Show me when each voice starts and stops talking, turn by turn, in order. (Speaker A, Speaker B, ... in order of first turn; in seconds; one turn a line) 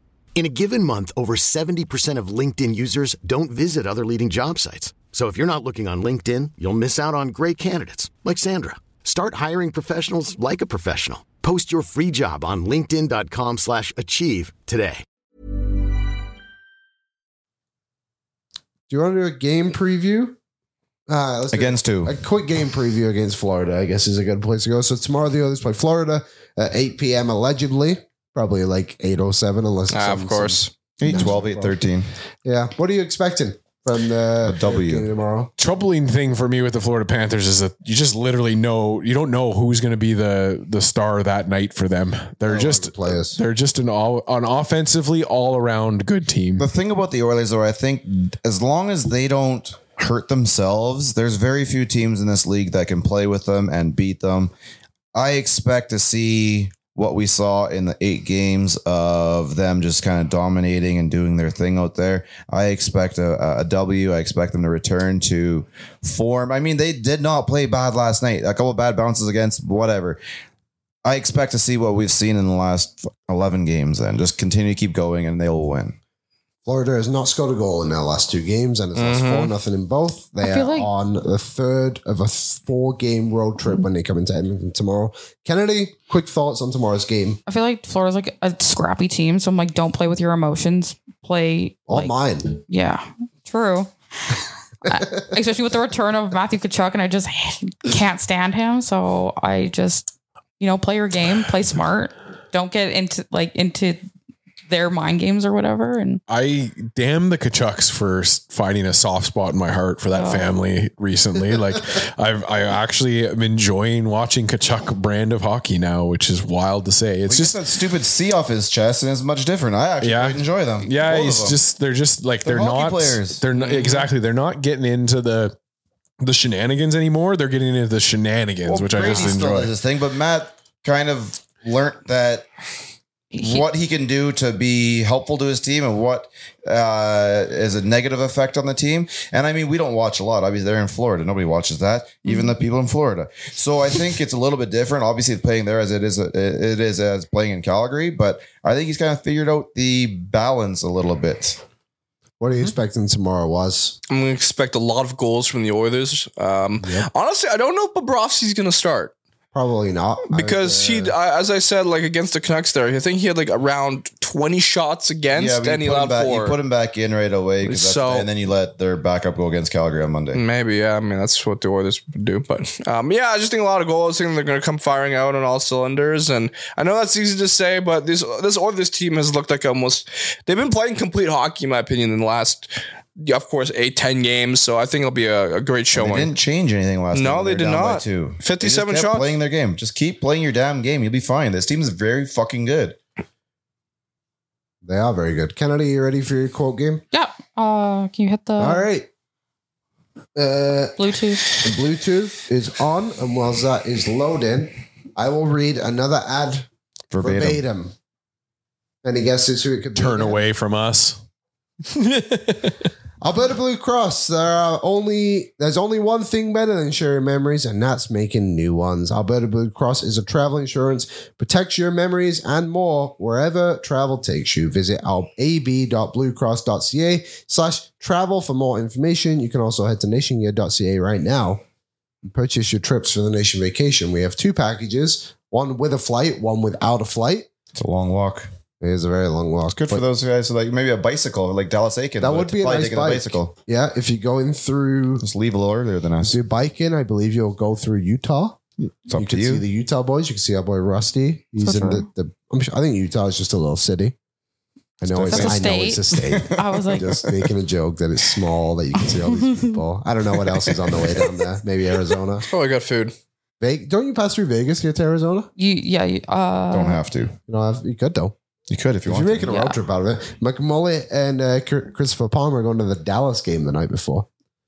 Speaker A: 0.3-15.0
Speaker B: 18.9-20.4
Speaker B: 21.1-31.8
Speaker C: 21.5-22.1
Speaker D: 29.9-30.7
Speaker C: 31.0-32.1
Speaker B: 32.4-35.5
Speaker C: 34.4-35.0
Speaker E: 35.6-46.7
Speaker B: 42.5-43.4
Speaker C: 46.6-54.5
Speaker C: 55.1-70.2
Speaker C: 71.0-76.0
Speaker B: 76.6-87.4
Speaker D: 79.0-79.5
Speaker F: 80.4-80.9
Speaker F: 87.5-104.0
Speaker B: 91.9-92.5
Speaker B: 94.9-95.2
Speaker F: 104.7-106.2
Speaker E: 106.3-117.6
Speaker F: 110.1-110.5
Speaker C: 117.3-121.6
Speaker E: 120.0-125.5
Speaker C: 122.4-123.4
Speaker D: 123.5-124.0
Speaker E: 126.2-129.7
Speaker C: 128.6-132.5
Speaker F: 133.3-133.7
Speaker C: 133.4-151.6
Speaker F: 142.2-142.5
Speaker B: 152.4-154.0
Speaker D: 154.1-159.1
Speaker B: 156.8-157.1
Speaker B: 159.5-161.1
Speaker D: 160.3-166.6
Speaker C: 165.3-170.4
Speaker D: 167.6-168.3
Speaker D: 170.3-186.3
Speaker C: 185.9-193.0
Speaker D: 187.1-189.4
Speaker B: 194.8-197.0
Speaker F: 197.1-198.8
Speaker B: 198.6-199.1
Speaker B: 200.3-200.9
Speaker F: 201.0-201.5
Speaker B: 201.5-206.7
Speaker C: 207.1-207.6
Speaker B: 207.2-207.9
Speaker B: 209.0-210.4
Speaker E: 209.9-211.2
Speaker E: 211.9-212.9
Speaker B: 213.2-231.6
Speaker B: 232.2-237.5
Speaker C: 237.7-238.5
Speaker B: 238.8-240.0
Speaker C: 239.7-243.5
Speaker B: 242.2-245.2
Speaker C: 245.2-246.4
Speaker B: 246.2-248.6
Speaker C: 248.8-249.6
Speaker B: 249.1-254.1
Speaker F: 251.6-252.1
Speaker B: 255.0-262.4
Speaker C: 255.0-255.6
Speaker F: 255.3-257.1
Speaker C: 256.2-257.2
Speaker F: 259.0-259.8
Speaker D: 262.5-263.1
Speaker B: 263.6-265.5
Speaker F: 265.6-267.0
Speaker C: 266.7-267.3
Speaker B: 267.5-268.3
Speaker C: 268.7-269.5
Speaker B: 269.1-274.3
Speaker F: 269.5-269.8